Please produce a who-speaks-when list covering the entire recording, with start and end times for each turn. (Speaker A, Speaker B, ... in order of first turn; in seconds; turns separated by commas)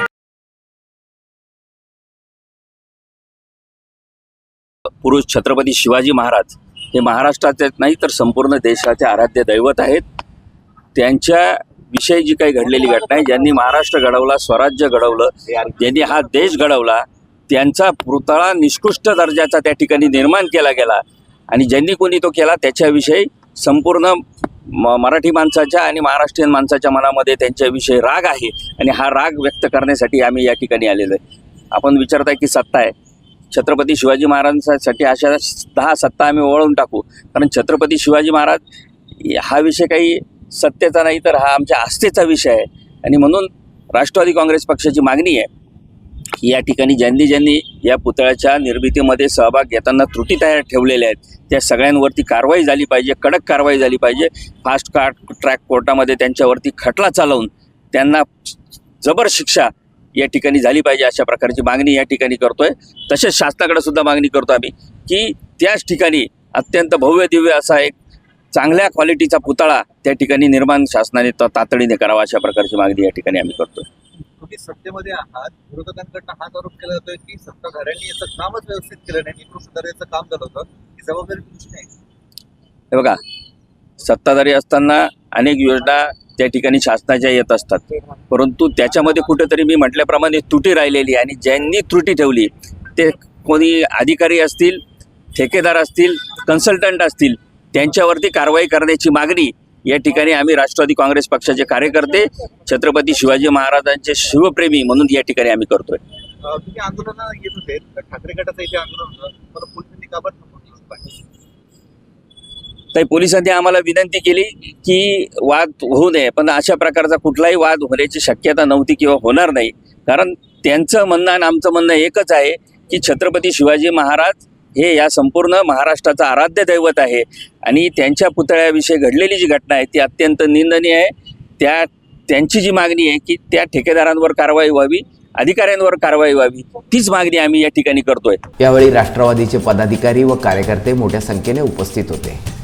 Speaker A: 5.0-10.0, Speaker A: 10.9-31.2, Speaker A: 31.7-32.9, Speaker A: 33.5-38.6, Speaker A: 39.2-45.5, Speaker A: 46.4-67.9, Speaker A: 68.5-73.9, Speaker B: 74.4-81.9, Speaker A: 82.9-83.2, Speaker A: 84.0-94.8, Speaker A: 95.3-106.0, Speaker B: 106.4-111.2, Speaker A: 112.9-138.4, Speaker C: 138.6-142.4